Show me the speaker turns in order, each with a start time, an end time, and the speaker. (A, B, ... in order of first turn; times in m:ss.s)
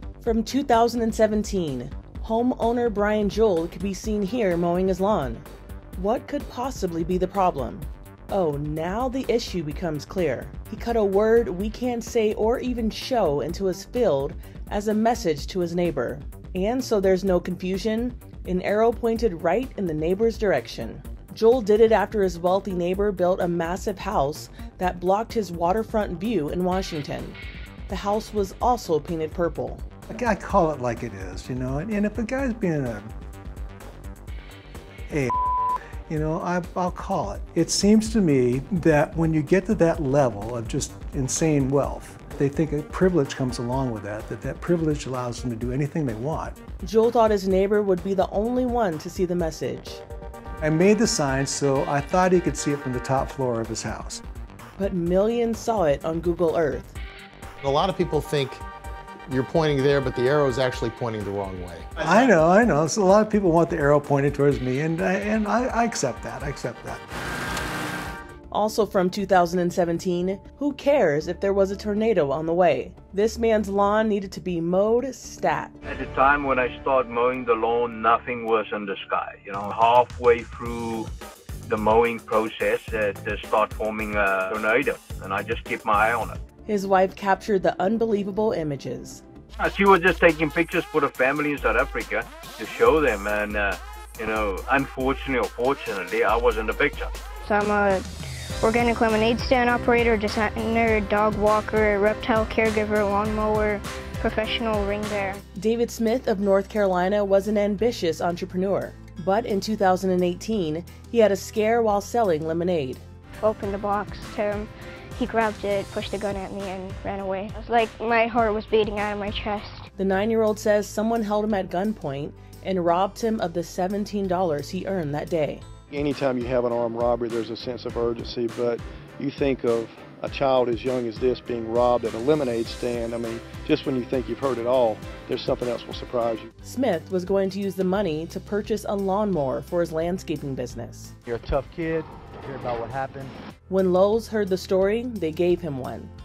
0:00.2-0:29.8 A
0:30.1-0:33.1 B
0:35.1-0:46.6 B
0:46.8-0:50.0 A
0:50.6-0:54.2 B
0:54.8-0:57.0 A
0:57.6-0:58.6 C
0:59.3-1:02.0 C
1:02.0-1:07.0 B
1:08.5-1:15.7 A
1:15.8-1:21.1 D
1:21.7-1:26.4 D
1:26.7-1:29.2 A
1:29.6-1:37.2 D
1:37.4-1:38.0 E
1:38.6-1:45.4 E
1:45.6-1:53.0 A
1:53.4-1:59.9 E
2:00.0-2:05.6 A
2:05.9-2:16.5 F
2:16.6-2:21.1 A
2:21.3-2:23.3 G
2:23.7-2:26.1 A